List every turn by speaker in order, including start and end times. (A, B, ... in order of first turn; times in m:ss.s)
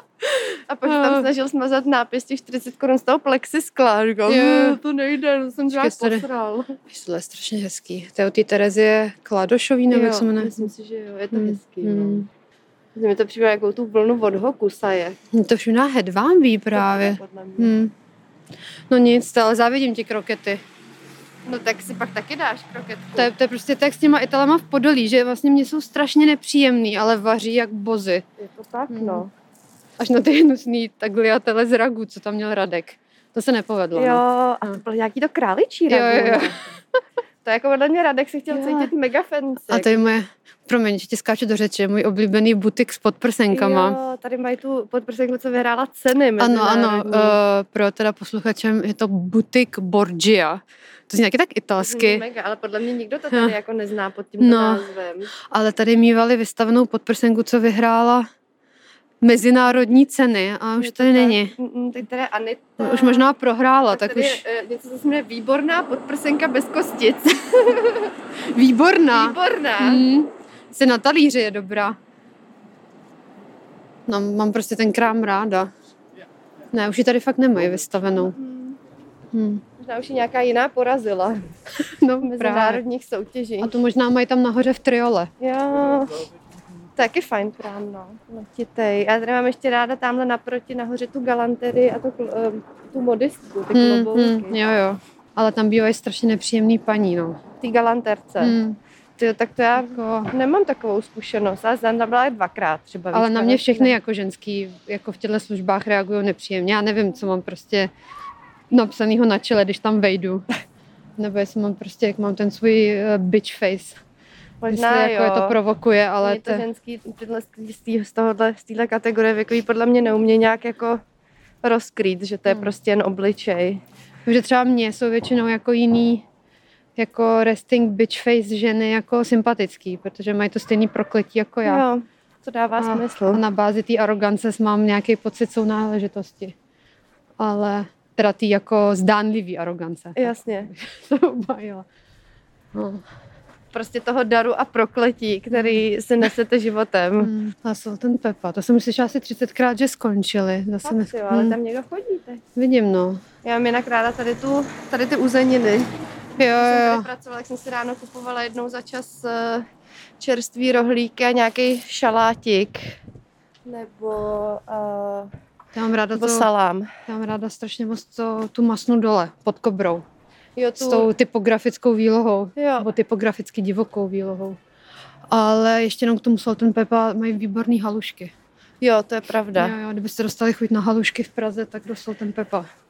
0:00.2-0:01.3 A
0:00.7-0:06.8 B
0:04.3-0:04.8 A
0:05.7-0:06.2 A
0:06.9-0:10.7 A
0:09.9-0:12.3 B
0:11.3-0:12.3 A
0:12.9-0:15.2 B
0:15.3-0:17.9 A
0:16.7-0:17.7 B
0:18.9-0:20.6 A
0:21.4-0:23.3 B
0:23.1-0:28.2 A
0:28.4-0:29.3 B
0:28.9-0:29.2 A
0:30.0-0:34.8 A
0:33.9-0:36.7 B
0:35.9-0:36.5 A
0:37.4-0:40.1 B
0:38.5-0:38.9 A
0:39.7-0:44.0 A
0:43.5-0:47.4 B
0:46.4-0:52.2 A
0:51.8-0:55.3 B
0:54.4-0:54.8 A
0:55.5-0:58.3 A
0:59.2-1:01.5 A
1:00.8-1:03.2 B
1:02.8-1:04.4 A
1:03.9-1:08.1 B
1:08.5-1:12.0 A
1:09.1-1:10.0 B
1:14.1-1:15.7 A
1:16.7-1:18.4 A
1:18.1-1:18.8 B
1:19.3-1:19.6 A
1:19.8-1:21.4 B
1:21.8-1:22.8 A
1:22.2-1:23.8 B
1:23.6-1:25.3 A
1:25.4-1:26.2 B
1:27.0-1:34.6 B
1:33.7-1:37.4 A
1:37.6-1:38.6 B
1:38.4-1:38.8 A
1:39.2-1:44.0 B
1:39.8-1:40.3 A
1:43.1-1:47.9 A
1:48.7-1:50.5 A
1:51.2-1:54.0 A
1:54.6-1:55.6 B
1:54.7-1:56.6 A
1:56.2-2:01.0 B
2:01.6-2:03.8 B
2:02.5-2:02.7 A
2:04.2-2:06.2 A
2:07.0-2:11.8 A
2:11.6-2:13.4 B
2:12.8-2:16.6 A
2:17.4-2:21.8 A
2:20.2-2:20.7 B
2:22.7-2:23.0 A
2:23.7-2:27.3 B
2:25.5-2:25.8 A
2:27.2-2:31.6 A
2:30.8-2:32.4 B
2:32.6-2:33.2 A
2:33.4-2:35.9 B
2:36.4-2:37.1 A
2:36.5-2:39.6 B
2:40.2-2:43.0 B
2:43.6-2:45.3 B
2:45.7-2:46.5 A
2:46.1-2:46.9 B
2:47.0-2:50.0 A
2:50.6-2:51.1 B
2:50.8-2:54.6 A
2:52.6-2:52.9 B
2:55.3-2:58.3 A
2:58.8-2:59.7 B
2:59.6-3:02.7 A